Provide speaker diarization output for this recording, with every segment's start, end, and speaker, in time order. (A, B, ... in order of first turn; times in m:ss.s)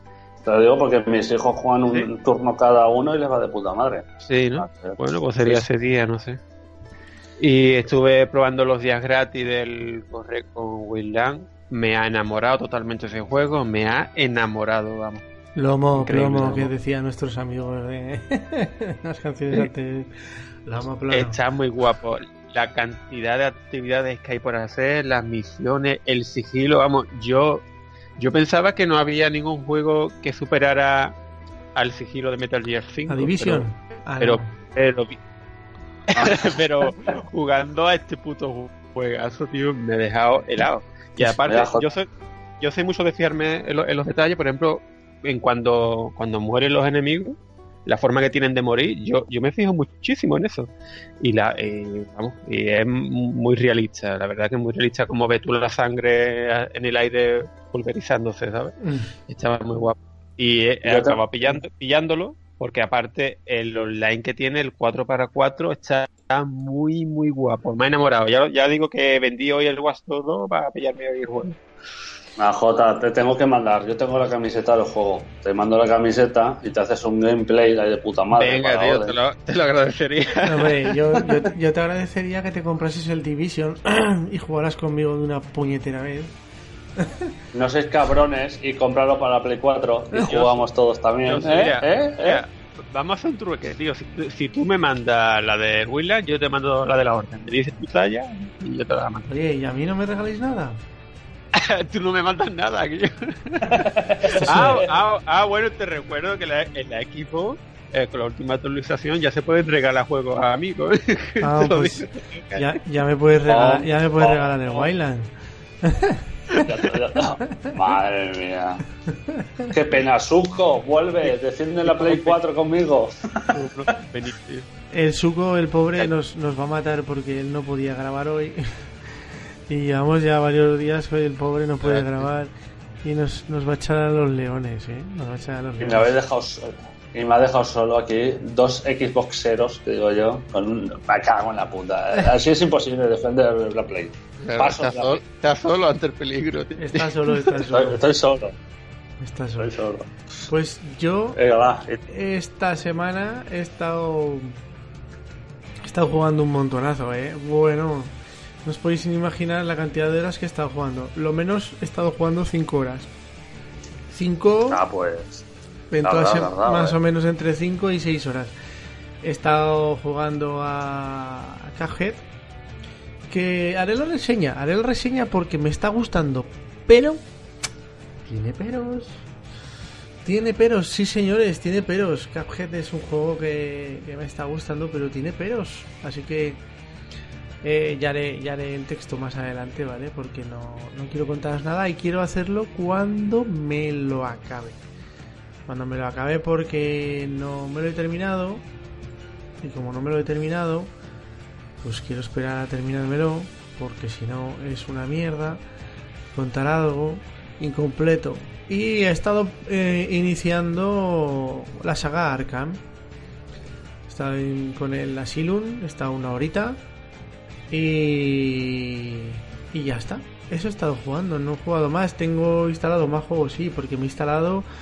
0:00.4-0:05.6 A
0:04.3-0:06.4 B
0:07.4-0:15.2 B
0:15.6-0:20.1 C
0:16.0-0:16.7 B
0:20.6-0:21.4 C
0:21.1-0:27.6 B
0:28.2-0:31.1 B
0:31.7-0:33.6 B
0:33.1-0:34.5 C
0:34.2-0:35.2 B
0:36.1-0:42.0 B
0:36.1-0:36.6 A
0:41.4-0:41.8 A
0:42.6-0:50.7 B
0:51.2-0:58.8 B
0:58.8-0:59.1 C
0:59.3-1:11.6 B
1:00.8-1:01.2 A
1:12.4-1:19.2 A
1:18.3-1:21.0 B
1:20.4-1:26.3 C
1:27.0-1:27.3 C
1:27.5-1:32.4 A
1:30.2-1:30.6 B
1:31.2-1:39.3 B
1:39.3-1:40.8 C
1:41.5-1:52.7 B
1:43.7-1:44.9 A
1:44.4-1:44.8 C
1:51.4-1:55.3 C
1:53.5-1:53.8 B
1:54.2-1:54.5 A
1:55.8-1:56.6 C
1:56.6-1:58.8 A
1:59.1-1:59.7 C
1:59.7-2:03.5 A
2:01.8-2:02.4 B
2:03.5-2:04.6 B
2:04.9-2:16.1 C
2:11.8-2:12.2 B
2:15.8-2:25.2 A
2:24.4-2:27.6 B
2:26.8-2:28.0 C
2:27.6-2:28.6 A
2:29.2-2:29.7 C
2:29.6-2:30.1 A
2:30.5-2:31.4 C
2:31.3-2:32.0 A
2:32.1-2:34.6 C
2:35.8-2:43.1 C
2:44.1-2:44.8 C
2:44.7-2:45.4 A
2:45.9-2:48.5 C
2:46.0-2:47.0 A
2:49.2-2:52.2 C
2:53.3-2:57.2 C
2:58.2-2:59.3 C
3:00.2-3:06.6 C
3:07.6-3:14.8 C
3:15.6-3:18.6 C
3:19.6-3:20.9 C
3:21.8-3:25.6 C
3:26.3-3:32.8 C
3:34.1-3:36.8 C
3:37.7-3:44.6 C